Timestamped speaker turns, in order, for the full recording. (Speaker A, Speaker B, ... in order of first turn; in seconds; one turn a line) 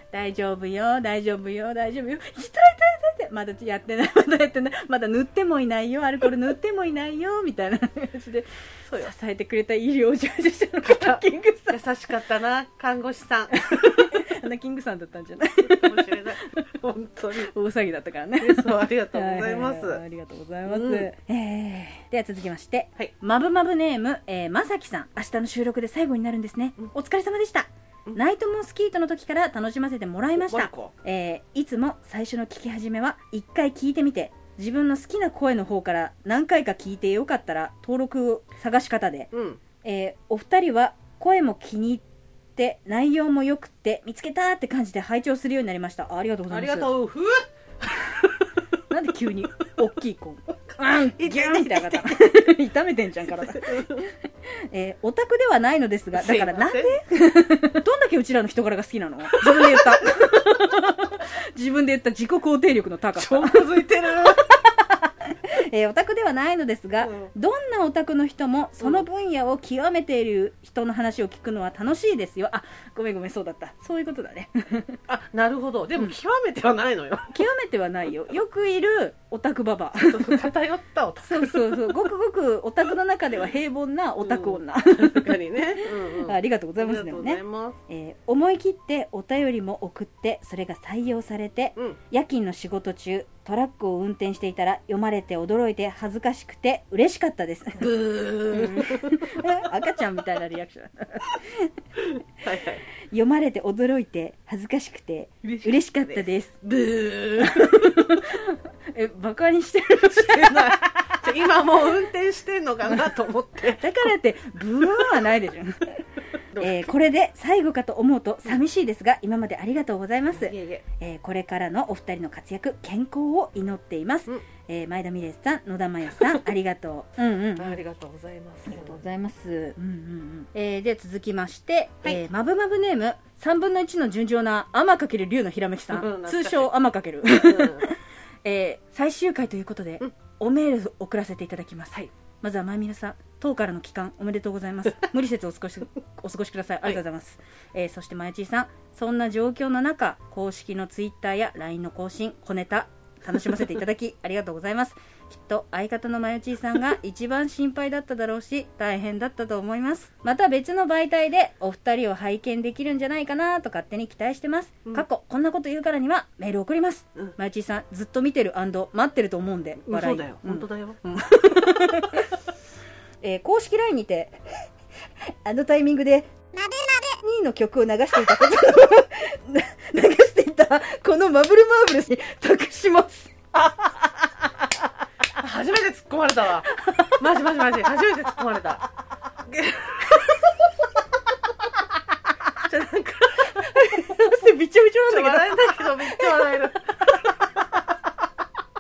Speaker A: 0.1-11.8
Speaker B: 8.9-9.1
Speaker B: 10.8-14.0
Speaker A: 13.5-16.6
Speaker B: 15.6-17.5
Speaker A: 17.3-39.3
Speaker B: 18.4-20.0
Speaker B: 20.7-21.1
Speaker B: 30.4-30.9
Speaker B: 39.3-39.6
Speaker A: 39.8-42.0
Speaker A: 42.6-46.9
Speaker B: 46.5-48.5
Speaker A: 48.9-54.1
Speaker B: 50.9-52.2
Speaker B: 53.3-54.1
Speaker A: 54.7-75.0
Speaker B: 56.1-57.0
Speaker B: 59.3-60.4
Speaker B: 63.2-64.5
Speaker B: 67.0-67.3
Speaker B: 68.8-69.1
Speaker B: 75.1-77.3
Speaker A: 77.3-80.5
Speaker B: 80.0-82.1
Speaker A: 81.2-101.7
Speaker B: 84.2-87.8
Speaker B: 97.8-99.5
Speaker B: 102.0-102.8
Speaker A: 103.1-106.6
Speaker B: 105.4-108.0
Speaker A: 107.4-111.6
Speaker B: 110.1-113.8
Speaker A: 113.7-116.0
Speaker B: 114.9-115.2
Speaker B: 116.5-116.9
Speaker A: 116.6-127.8
Speaker B: 120.3-120.8
Speaker B: 126.1-126.4
Speaker B: 127.6-129.0
Speaker A: 128.7-172.3
Speaker B: 135.9-136.7
Speaker B: 137.3-137.9
Speaker B: 169.8-171.0
Speaker A: 173.2-174.4
Speaker A: 175.4-176.4
Speaker A: 177.0-184.1
Speaker B: 185.4-188.9
Speaker A: 186.8-187.2
Speaker B: 189.5-190.5
Speaker B: 192.6-194.2
Speaker A: 193.7-196.6
Speaker B: 195.1-197.1